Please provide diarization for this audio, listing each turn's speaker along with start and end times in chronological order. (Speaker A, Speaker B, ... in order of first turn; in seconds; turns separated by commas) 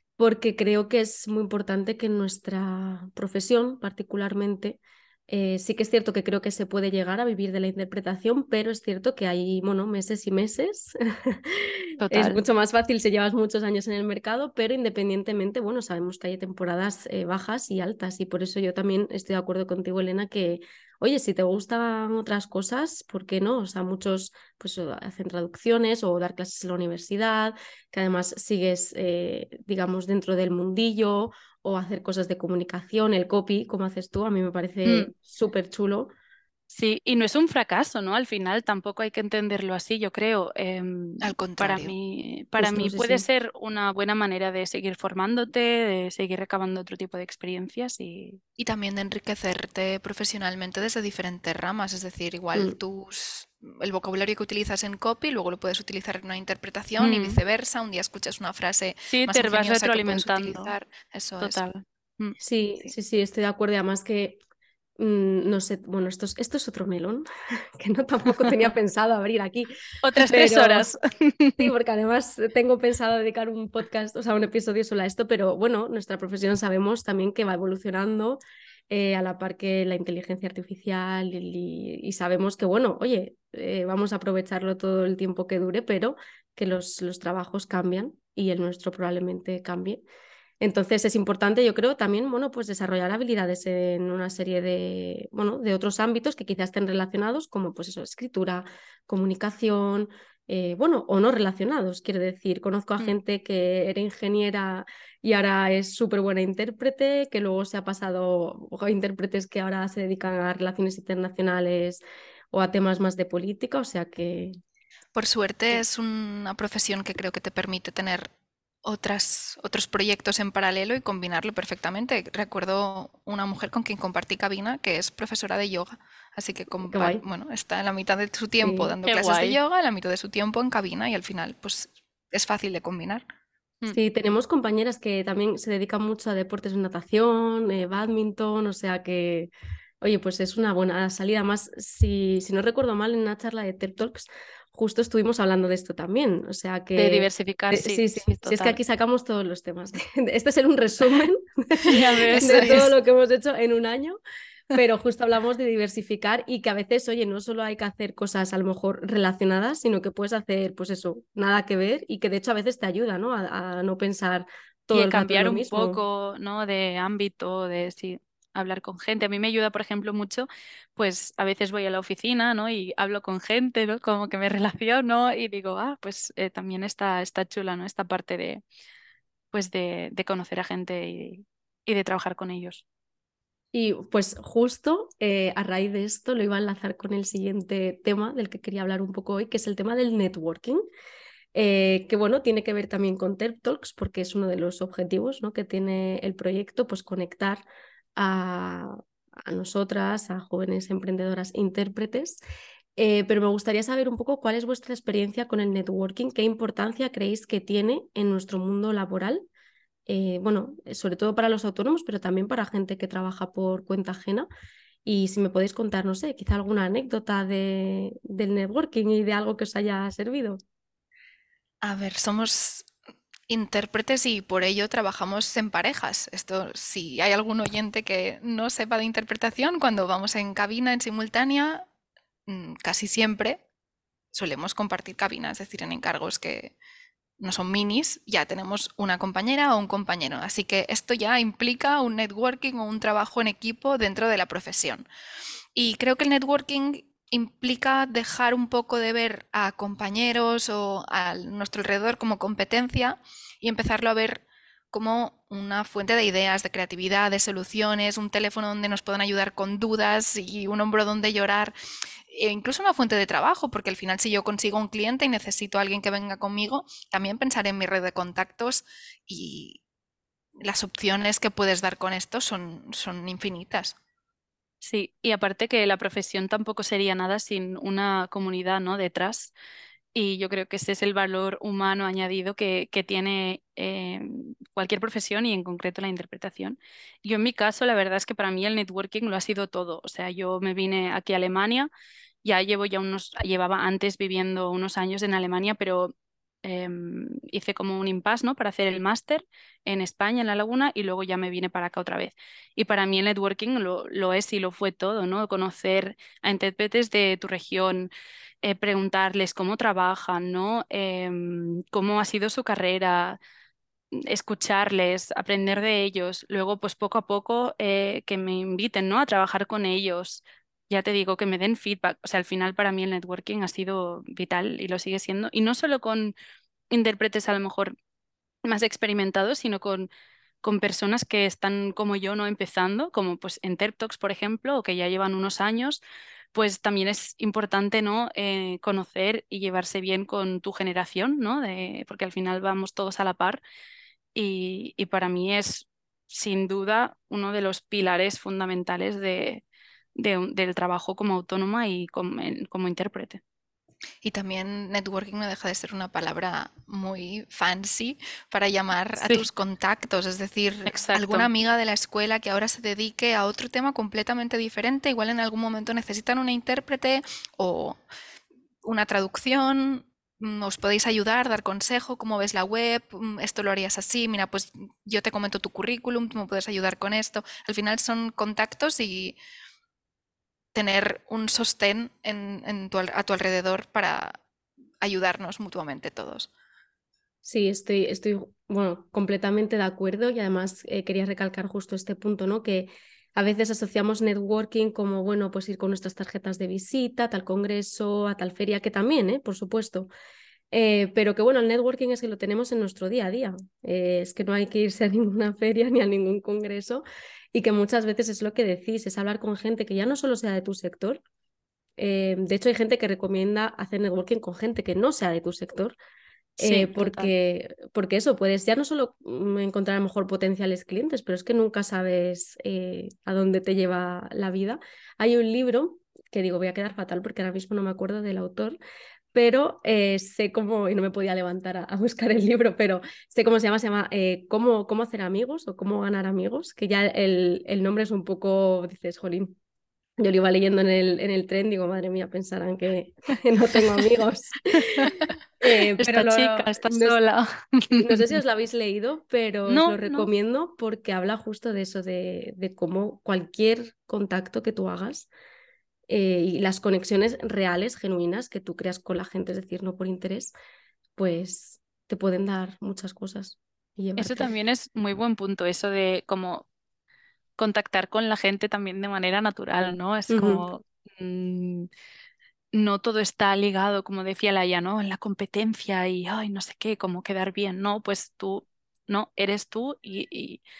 Speaker A: 0.2-36.1, Speaker B: 12.0-12.4, Speaker B: 34.9-35.1, Speaker B: 36.7-48.4, Speaker C: 41.2-41.9, Speaker A: 42.6-43.3, Speaker C: 48.6-61.6, Speaker B: 57.0-57.4, Speaker B: 59.1-60.7, Speaker B: 61.4-62.4, Speaker A: 62.4-64.4, Speaker A: 65.0-70.9, Speaker B: 70.0-71.7, Speaker A: 71.6-90.0, Speaker A: 90.6-114.6, Speaker C: 115.2-118.3, Speaker C: 118.8-133.2, Speaker A: 126.9-127.2, Speaker A: 128.6-128.9, Speaker B: 129.0-129.6, Speaker A: 133.9-154.2, Speaker B: 147.0-148.8, Speaker B: 151.9-152.9, Speaker C: 152.4-152.9, Speaker A: 154.8-166.0, Speaker B: 164.9-178.6, Speaker B: 179.5-182.8, Speaker A: 183.7-190.8, Speaker A: 191.5-197.6, Speaker A: 198.2-202.4, Speaker A: 203.0-209.4, Speaker A: 210.1-214.5, Speaker A: 215.1-220.6, Speaker C: 221.8-222.9, Speaker C: 223.5-231.9, Speaker C: 232.5-233.6, Speaker C: 234.3-236.7, Speaker C: 237.4-245.1, Speaker C: 245.8-261.7, Speaker C: 262.3-269.8, Speaker C: 270.6-274.0, Speaker B: 274.8-279.5, Speaker B: 280.1-291.9, Speaker B: 292.4-296.1, Speaker B: 296.6-308.1, Speaker B: 308.6-313.4, Speaker B: 314.1-326.3, Speaker B: 326.9-327.9, Speaker B: 328.6-330.1, Speaker B: 330.6-336.0, Speaker B: 336.5-343.6, Speaker B: 344.4-349.6, Speaker B: 350.2-353.4, Speaker C: 354.2-368.0, Speaker B: 359.2-359.5, Speaker B: 360.9-361.5, Speaker C: 368.8-379.4, Speaker C: 380.7-384.4, Speaker C: 385.0-386.5, Speaker A: 387.4-400.1, Speaker A: 400.7-411.2, Speaker A: 412.0-416.0, Speaker B: 416.6-417.3, Speaker A: 416.6-428.8, Speaker A: 429.3-439.6, Speaker A: 440.2-447.2, Speaker B: 446.0-448.4, Speaker A: 447.9-455.3, Speaker B: 449.7-450.3, Speaker A: 456.1-460.5, Speaker A: 461.2-464.5, Speaker B: 464.2-466.7, Speaker B: 467.6-471.9, Speaker A: 470.3-470.6, Speaker B: 472.7-480.6